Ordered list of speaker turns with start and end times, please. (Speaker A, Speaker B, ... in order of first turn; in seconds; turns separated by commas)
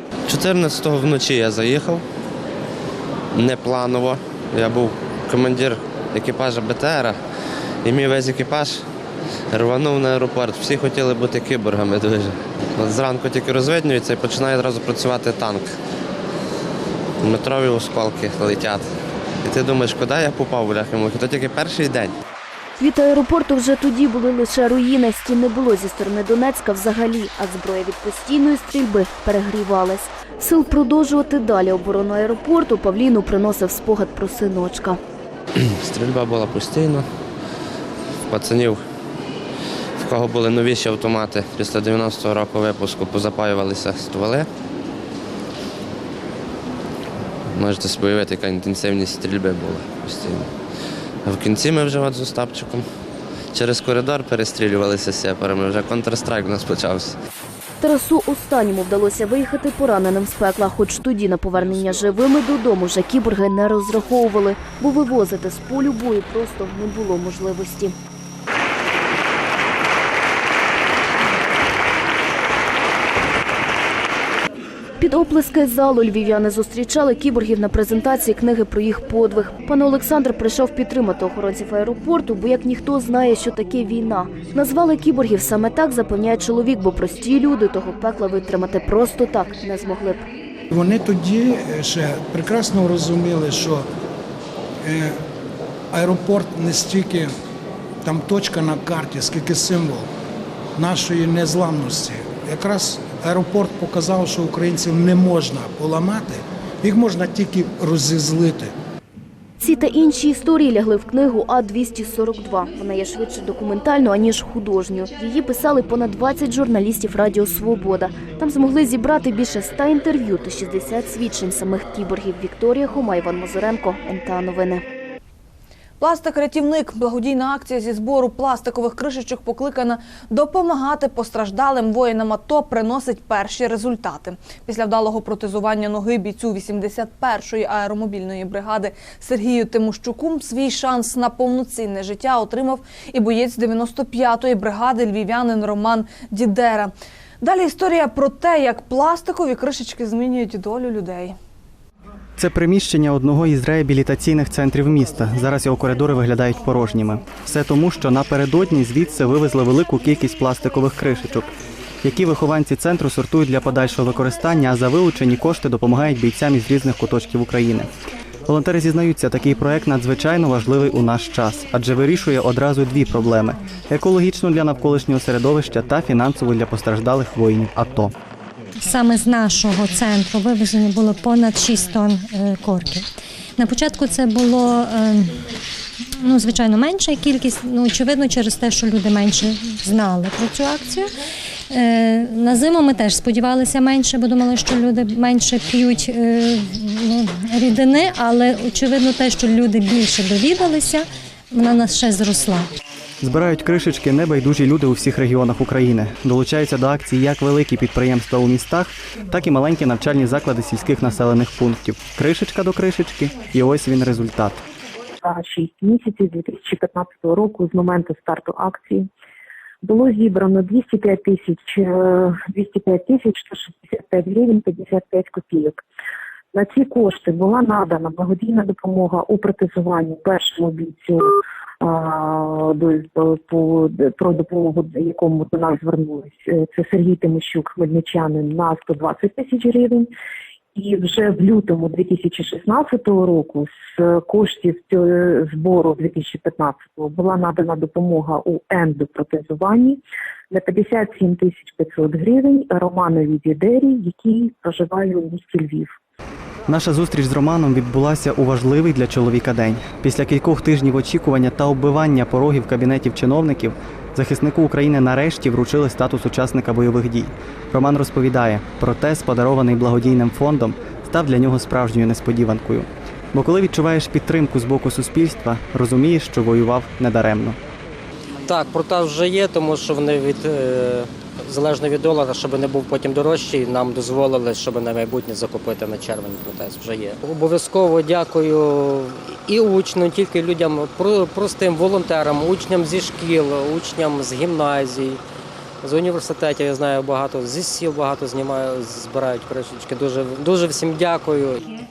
Speaker A: 0.3-2.0, Speaker A: 3.3-7.2, Speaker A: 7.8-8.8, Speaker A: 9.5-15.8, Speaker A: 17.2-18.9, Speaker A: 19.4-22.1, Speaker B: 22.8-35.0, Speaker A: 35.6-37.1, Speaker A: 38.3-38.8, Speaker A: 40.0-44.5, Speaker A: 47.5-50.5, Speaker A: 51.2-52.9, Speaker A: 53.5-57.2, Speaker B: 57.8-67.9, Speaker B: 75.0-90.2, Speaker C: 90.7-93.9, Speaker C: 94.8-95.2, Speaker C: 95.9-97.3, Speaker C: 98.0-100.1, Speaker C: 100.8-108.7, Speaker B: 109.6-124.8, Speaker D: 126.0-151.3, Speaker E: 152.4-161.5, Speaker E: 162.0-167.9, Speaker E: 168.5-178.1, Speaker F: 178.8-185.4, Speaker F: 186.2-191.1, Speaker F: 191.7-202.7, Speaker E: 203.2-214.6, Speaker G: 215.2-219.1, Speaker G: 219.8-225.8, Speaker G: 226.5-240.1, Speaker G: 240.8-250.0, Speaker G: 250.5-255.9, Speaker E: 256.7-277.6, Speaker H: 278.5-295.2, Speaker H: 295.8-301.6